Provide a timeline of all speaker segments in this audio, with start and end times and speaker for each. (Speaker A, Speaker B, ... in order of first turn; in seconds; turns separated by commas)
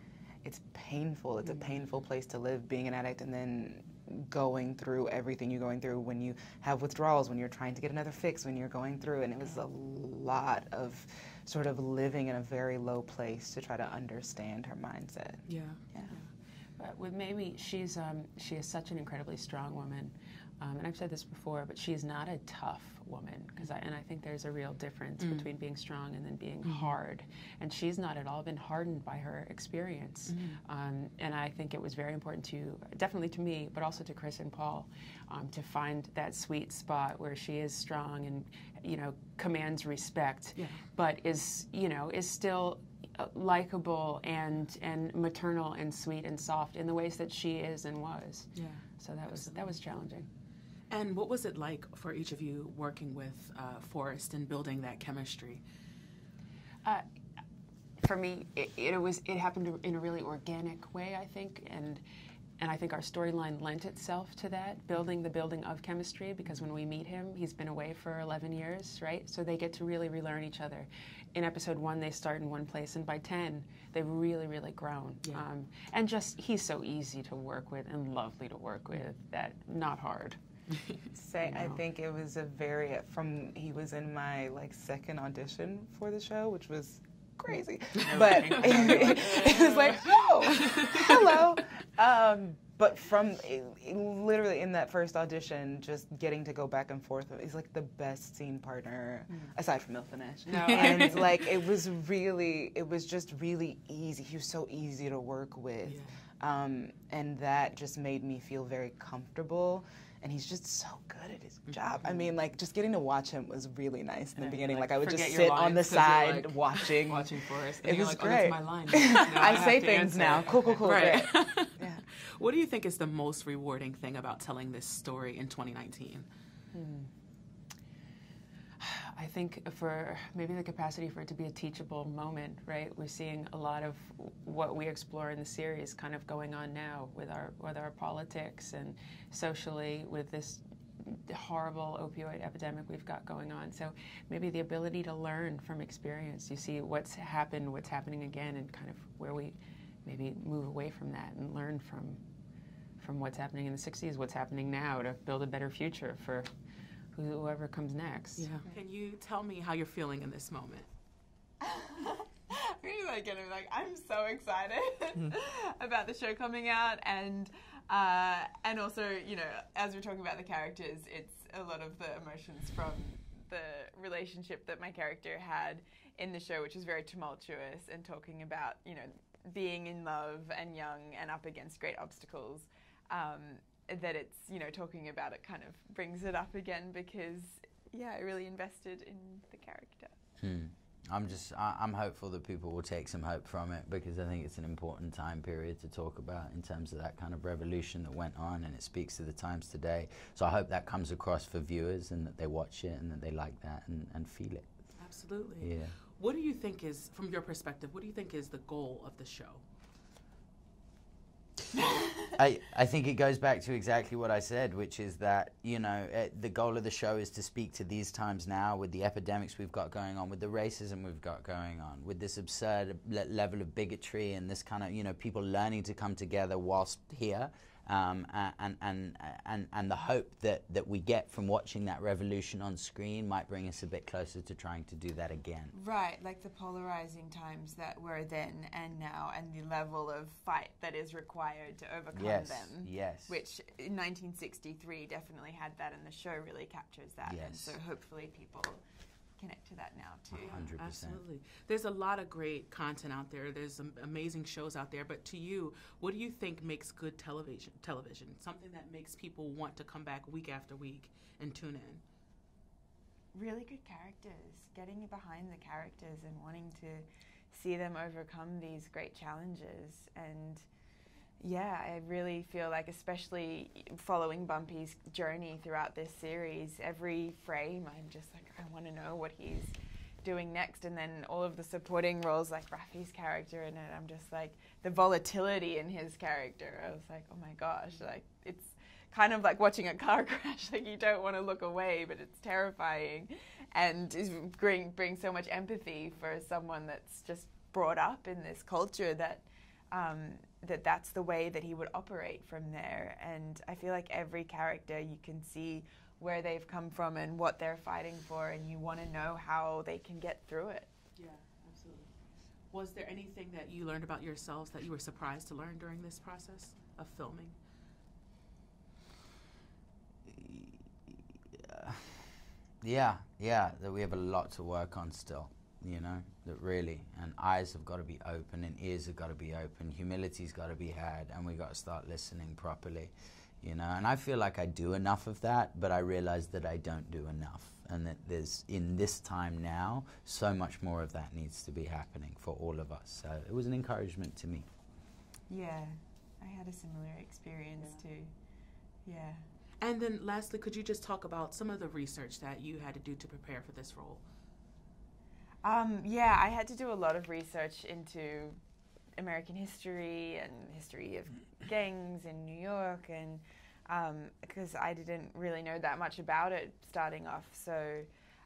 Speaker A: 0.4-16.1, Speaker B: 15.4-16.2, Speaker C: 16.8-50.3, Speaker B: 25.2-25.5, Speaker B: 26.6-27.0, Speaker B: 30.3-30.6, Speaker B: 40.6-40.8, Speaker B: 48.5-49.7, Speaker B: 50.9-55.6, Speaker C: 58.0-62.0, Speaker C: 62.6-80.4, Speaker A: 81.1-122.0, Speaker C: 81.4-81.8, Speaker C: 88.0-90.0, Speaker B: 88.2-89.2, Speaker B: 90.6-90.9, Speaker C: 99.3-99.5, Speaker C: 100.5-101.3, Speaker B: 100.7-101.3, Speaker B: 105.8-106.1, Speaker C: 114.4-120.8, Speaker B: 119.3-119.6, Speaker B: 120.8-121.7, Speaker B: 122.3-126.2, Speaker C: 126.7-127.1, Speaker C: 128.8-152.2, Speaker C: 153.0-156.5, Speaker C: 157.1-158.5, Speaker B: 158.4-160.9, Speaker D: 161.6-190.1, Speaker E: 190.4-204.7, Speaker B: 205.0-209.6, Speaker E: 205.6-205.9, Speaker E: 212.4-235.7, Speaker D: 235.7-248.8, Speaker E: 242.2-243.4, Speaker E: 247.2-247.8, Speaker D: 249.4-250.6, Speaker E: 250.3-251.2, Speaker B: 250.3-262.0, Speaker D: 263.3-270.6, Speaker D: 271.4-310.9, Speaker B: 311.2-312.1, Speaker B: 312.7-317.5, Speaker E: 320.3-320.8, Speaker E: 321.7-322.1, Speaker E: 322.8-344.7, Speaker D: 345.5-348.3, Speaker D: 349.0-349.4, Speaker B: 349.8-354.2, Speaker D: 355.6-358.6, Speaker D: 359.2-368.1